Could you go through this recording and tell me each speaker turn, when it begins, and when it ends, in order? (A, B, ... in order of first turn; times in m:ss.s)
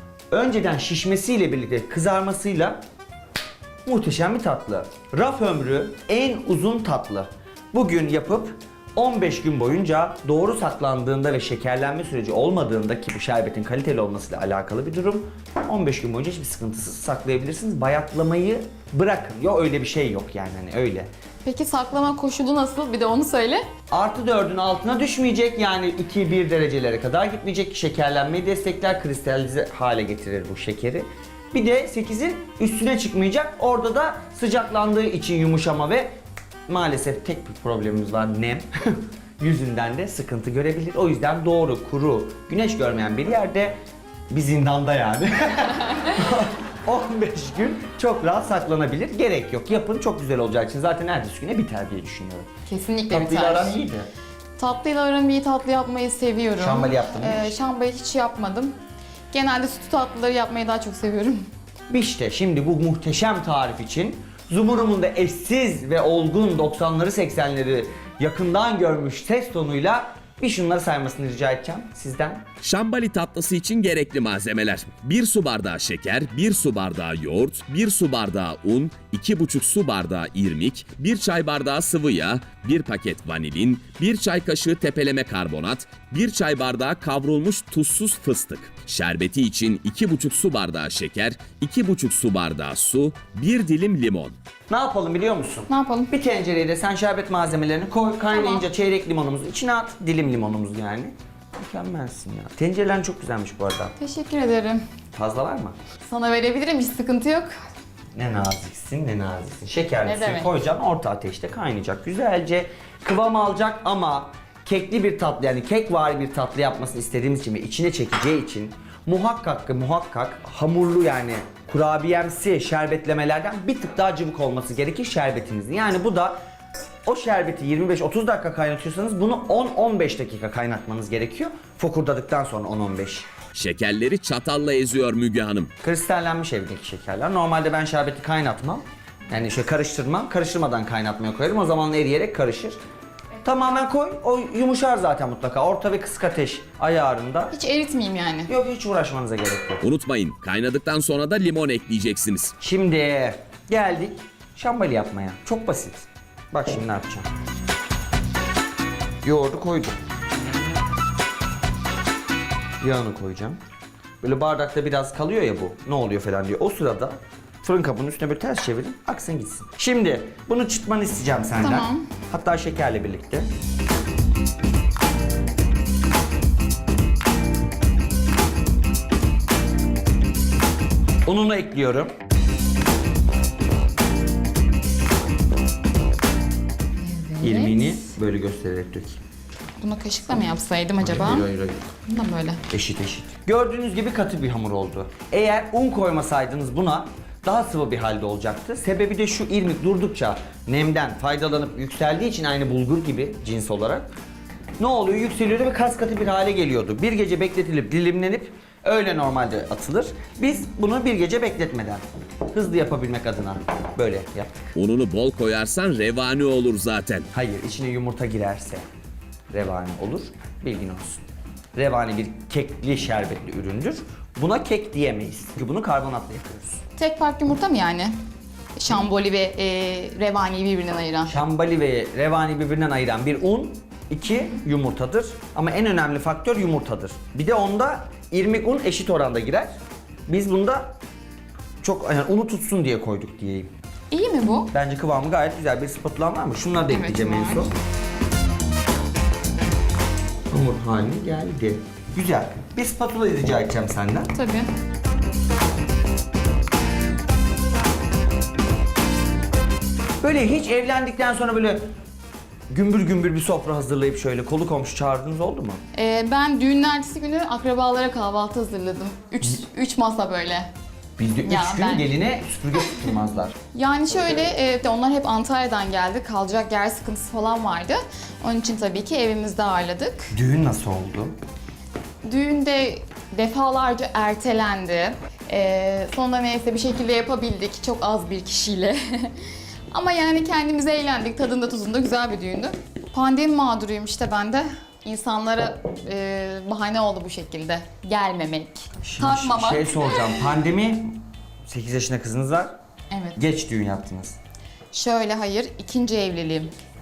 0:00.3-0:02.8 A
0:03.8-0:21.1 A
0:21.4-0:23.6 B
0:23.9-0:36.1 A
0:36.7-0:43.8 A
0:44.3-0:52.5 A
0:52.7-0:53.8 B
0:53.1-0:54.1 A
0:54.6-0:58.8 B
0:56.6-0:57.6 A
0:59.3-1:01.5 B
1:01.9-1:12.4 A
1:12.6-1:34.4 C
1:34.7-1:43.9 A
1:35.7-1:36.1 B
1:38.3-1:38.7 B
1:44.0-1:44.8 B
1:45.1-1:45.8 A
1:46.0-1:47.5 B
1:48.2-2:06.4 A
1:50.0-1:50.5 B
2:07.1-2:13.3 A
2:13.5-2:15.7 C
2:15.8-2:22.8 A
2:23.4-2:27.5 A
2:27.5-2:28.5 B
2:28.5-2:29.8 A
2:29.8-2:32.5 C
2:32.6-2:37.3 A
2:39.2-2:40.0 A
2:42.8-2:43.6 A
2:44.2-2:53.5 A
2:51.6-2:52.0 B
3:01.3-3:02.1 A
3:07.0-3:08.0 B
3:07.4-3:09.2 A
3:09.8-3:11.5 B
3:11.0-3:11.9 A
3:12.1-3:12.6 B
3:12.7-3:24.1 A
3:24.8-3:34.7 A
3:34.8-3:37.3 C
3:37.3-3:38.8 A
3:39.5-3:41.2 A
3:41.8-3:46.8 A
3:47.0-3:48.1 B
3:48.8-3:51.3 B
3:51.3-3:59.7 A
4:00.3-4:01.0 A
4:01.8-4:03.7 A
4:04.1-4:04.7 B
4:04.7-4:07.7 A
4:06.9-4:07.7 B
4:10.5-4:14.3 A
4:14.3-4:14.7 B
4:20.2-4:21.9 A
4:22.7-4:25.8 A
4:25.9-4:30.7 B
4:31.2-4:33.6 A
4:31.4-4:32.1 B
4:33.7-4:40.3 B
4:40.3-4:41.4 A
4:42.2-5:00.4 B
4:58.9-5:02.7 A
5:03.1-5:03.4 B
5:03.4-5:04.4 A
5:04.9-5:06.7 B